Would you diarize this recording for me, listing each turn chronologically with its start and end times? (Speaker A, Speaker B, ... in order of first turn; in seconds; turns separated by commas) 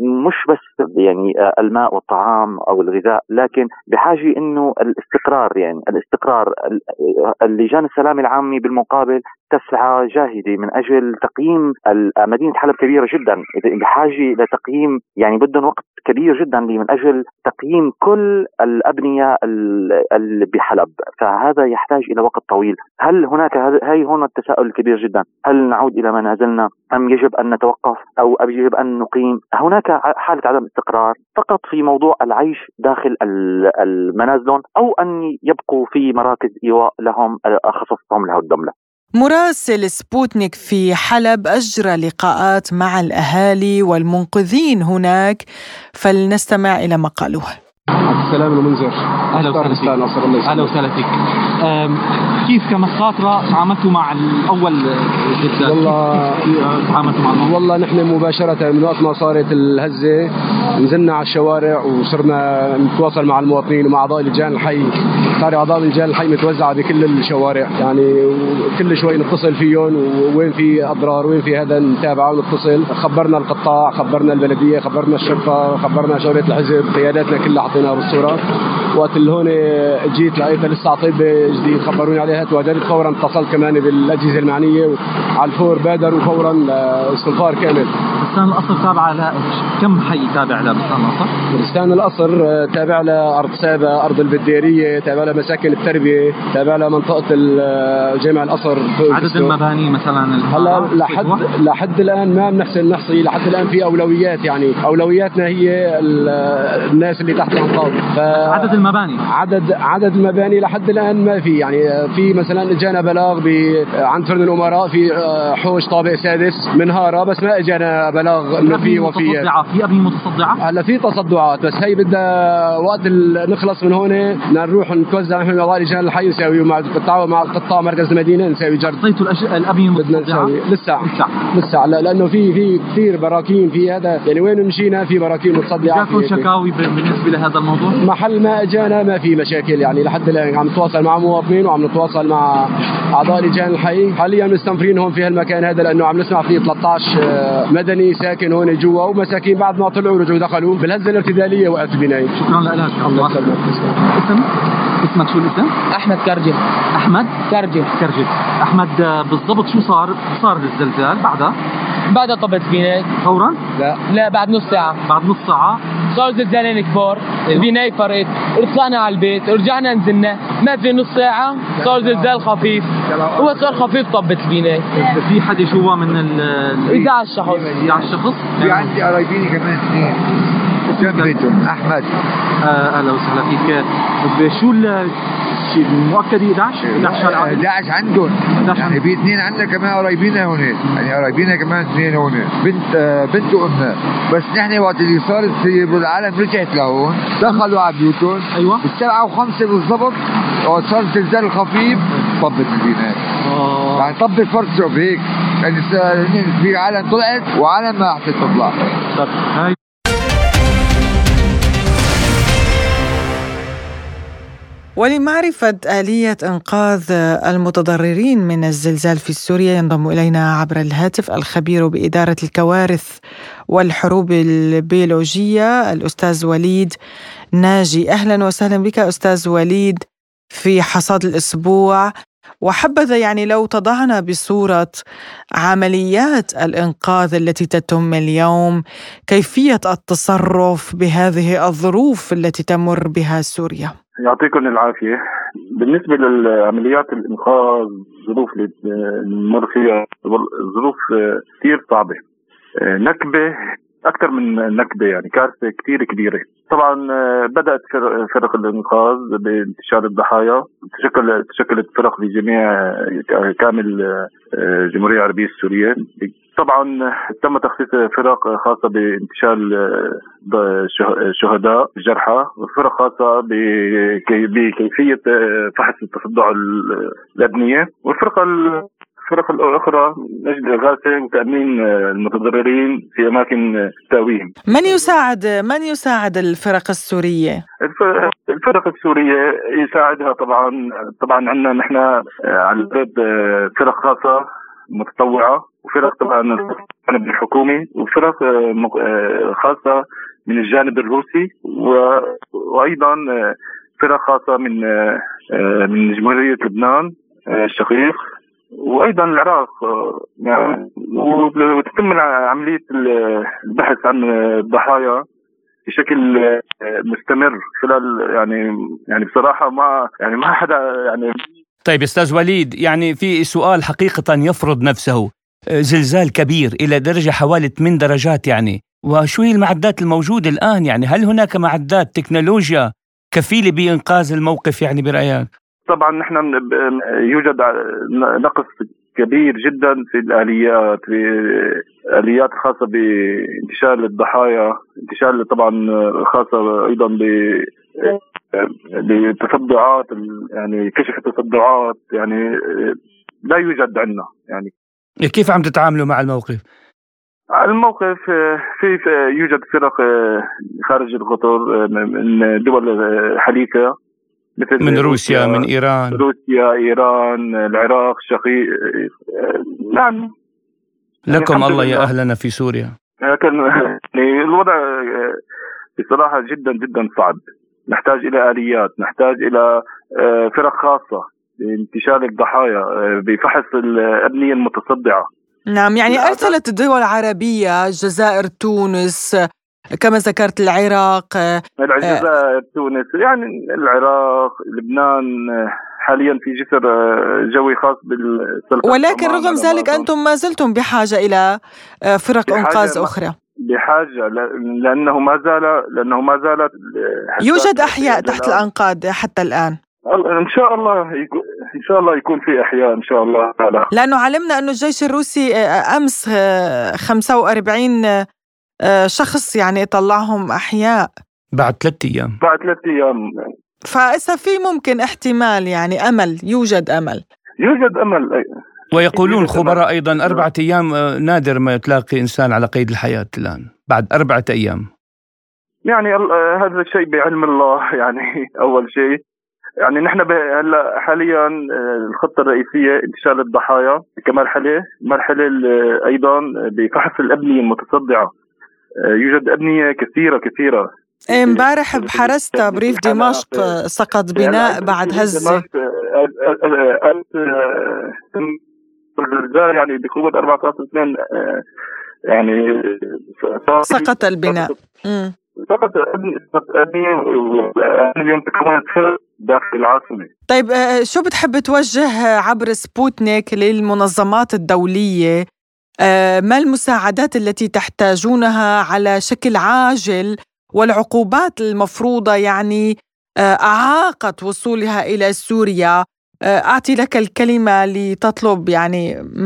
Speaker A: 0.2-38.7, Speaker B: 39.2-45.4, Speaker B: 46.0-47.5, Speaker C: 48.1-50.8, Speaker D: 49.3-57.6, Speaker C: 55.6-56.5, Speaker C: 57.4-87.9, Speaker D: 88.2-91.3, Speaker C: 91.5-99.6, Speaker D: 99.1-101.5, Speaker C: 100.5-119.5, Speaker D: 108.4-109.2, Speaker D: 118.7-120.6, Speaker C: 120.6-129.0, Speaker D: 129.0-131.4, Speaker C: 130.0-136.5, Speaker D: 135.9-138.0, Speaker C: 138.0-152.3, Speaker D: 152.4-155.8, Speaker C: 153.1-153.7, Speaker E: 155.9-156.6, Speaker D: 157.0-157.4, Speaker E: 157.4-157.9, Speaker D: 157.9-161.6, Speaker E: 162.1-163.1, Speaker D: 163.2-163.6, Speaker E: 163.9-165.0, Speaker D: 165.1-165.8, Speaker E: 166.1-175.1, Speaker F: 171.8-172.3, Speaker F: 173.1-173.8, Speaker D: 175.0-179.0, Speaker E: 176.9-177.9, Speaker F: 177.5-178.0, Speaker F: 178.6-180.2, Speaker F: 180.9-182.1, Speaker D: 181.0-181.4, Speaker D: 182.6-187.6, Speaker F: 186.8-203.2, Speaker D: 188.6-189.0, Speaker D: 198.6-198.8, Speaker D: 203.5-204.1, Speaker F: 203.9-208.8, Speaker D: 209.2-209.8, Speaker B: 215.0-223.2, Speaker B: 223.7-226.9, Speaker B: 227.6-230.0, Speaker B: 230.5-232.1, Speaker B: 232.7-235.0, Speaker B: 235.6-243.9, Speaker G: 244.2-245.2, Speaker G: 245.8-252.2, Speaker G: 252.8-253.5, Speaker G: 254.0-284.6, Speaker B: 284.7-287.6, Speaker G: 287.8-308.2, Speaker G: 308.8-315.2, Speaker G: 315.9-321.4, Speaker H: 321.9-325.3, Speaker H: 325.9-335.5, Speaker G: 335.9-353.0, Speaker G: 353.5-354.7, Speaker H: 355.3-356.6, Speaker G: 357.6-363.9, Speaker G: 364.6-370.3, Speaker H: 364.8-366.2, Speaker H: 371.3-372.9, Speaker G: 371.3-372.1, Speaker G: 373.2-375.4, Speaker G: 376.0-385.3, Speaker B: 385.7-389.3, Speaker G: 386.1-386.5, Speaker B: 390.0-392.2, Speaker G: 391.8-400.1, Speaker B: 398.9-401.4, Speaker B: 402.1-403.4, Speaker G: 402.5-403.1, Speaker G: 403.7-408.6, Speaker B: 407.4-409.8, Speaker G: 410.1-413.9, Speaker B: 413.9-416.3, Speaker B: 417.1-418.0, Speaker B: 419.1-421.1, Speaker H: 421.6-422.4, Speaker G: 422.4-423.5, Speaker B: 423.9-427.2, Speaker G: 427.6-428.5, Speaker H: 428.9-434.9, Speaker G: 429.0-430.5, Speaker G: 435.9-439.2, Speaker G: 439.8-441.6, Speaker G: 442.1-448.3, Speaker G: 449.1-453.6, Speaker B: 451.3-455.6, Speaker G: 454.4-458.6, Speaker G: 459.2-461.6, Speaker G: 462.3-464.8, Speaker B: 463.9-465.3, Speaker G: 465.6-470.3, Speaker B: 470.5-475.4, Speaker B: 476.1-482.9, Speaker B: 483.5-489.0